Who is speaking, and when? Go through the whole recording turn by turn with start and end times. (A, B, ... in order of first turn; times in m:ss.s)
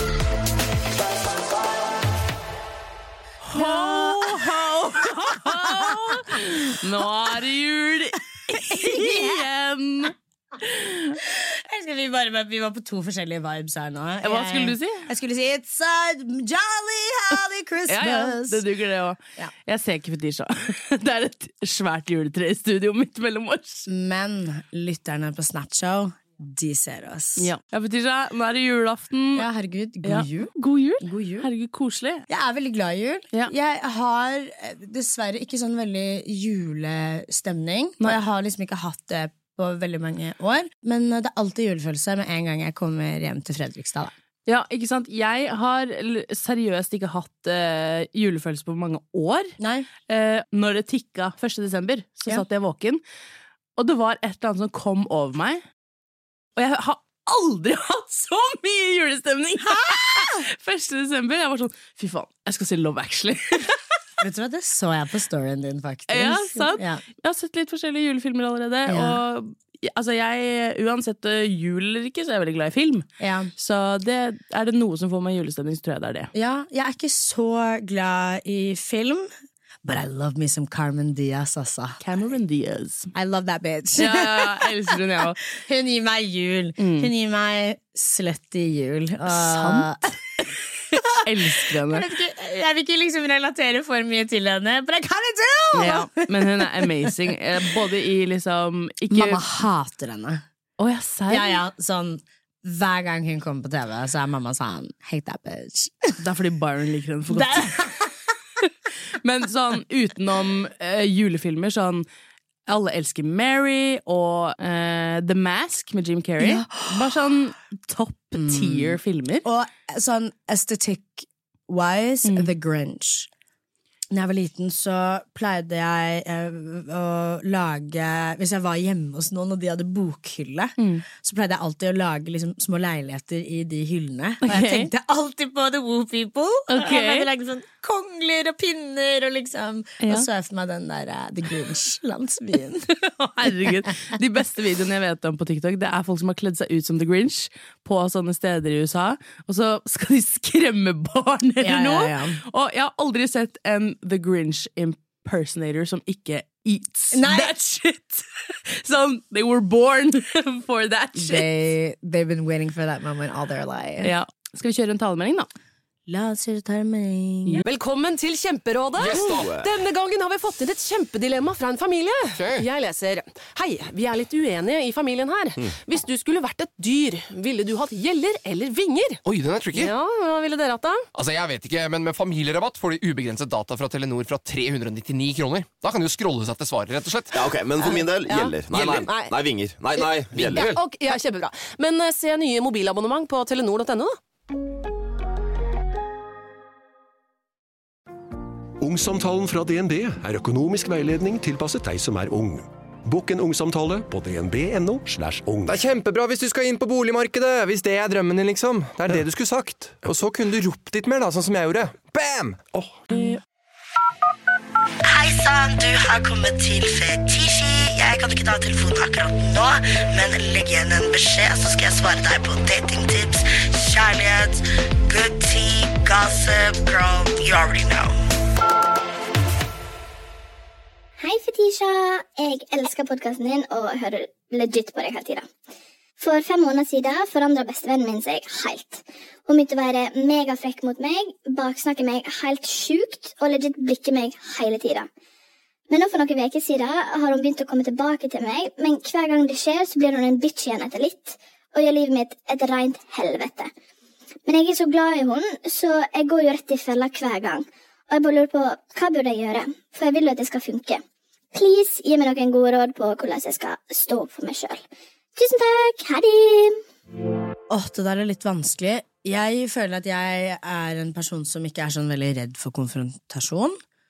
0:01.1-0:01.9 A
0:03.4-0:11.2 B
0:03.5-0:06.5 C
0:08.5-0:09.4 C
0:11.2-0:18.6 C
0:14.2-0:15.1 B
0:17.9-0:23.9 B
0:23.9-0:27.5 C
0:27.4-0:29.5 B
0:29.4-0:31.5 C
0:30.0-0:32.3 B
0:32.3-0:44.1 C
0:44.5-0:49.6 B
0:49.6-0:49.9 C
0:50.1-0:53.0 B
0:53.8-0:55.6 B
0:56.6-1:03.8 B
0:59.6-1:00.5 C
1:04.2-1:07.0 C
1:06.1-1:16.3 B
1:08.9-1:09.2 C
1:13.2-1:13.5 C
1:16.3-1:19.3 C
1:19.8-1:22.0 C
1:22.0-1:23.1 B
1:23.1-1:25.0 C
1:24.0-1:25.4 B
1:25.5-1:30.1 C
1:26.8-1:27.1 B
1:29.3-1:29.9 B
1:31.0-1:37.4 C
1:31.2-1:32.0 B
1:35.7-1:39.4 B
1:39.1-1:40.4 C
1:40.8-1:41.6 B
1:41.3-1:46.2 C
1:46.2-1:47.8 B
1:47.3-1:48.2 C
1:49.2-1:52.0 B
1:52.7-1:59.4 B
1:56.4-1:57.1 C
1:58.4-2:03.3 C
2:04.1-2:23.9 C
2:10.8-2:11.0 B
2:14.4-2:14.9 B
2:16.7-2:17.3 B
2:20.0-2:20.3 B
2:23.1-2:41.5 B
2:31.6-2:32.4 C
2:37.1-2:37.6 C
2:41.2-2:44.1 C
2:44.0-2:45.5 B
2:46.1-2:47.6 C
2:47.6-2:59.2 D
2:49.0-2:49.5 E
2:49.2-2:49.7 F
2:52.4-2:52.7 E
2:59.2-2:59.9 E
2:59.7-3:01.1 D
3:01.2-3:07.4 E
3:07.3-3:10.7 F
3:07.8-3:09.4 D
3:10.0-3:14.2 D
3:10.4-3:10.8 E
3:18.8-3:25.8 G
3:25.7-3:32.7 H
3:35.1-3:48.2 A
3:51.2-3:55.5 I
3:56.2-4:05.1 I
4:05.9-4:13.7 I
4:14.5-4:21.0 I
4:21.5-4:24.8 I
4:25.4-4:26.8 I
4:27.7-4:33.8 C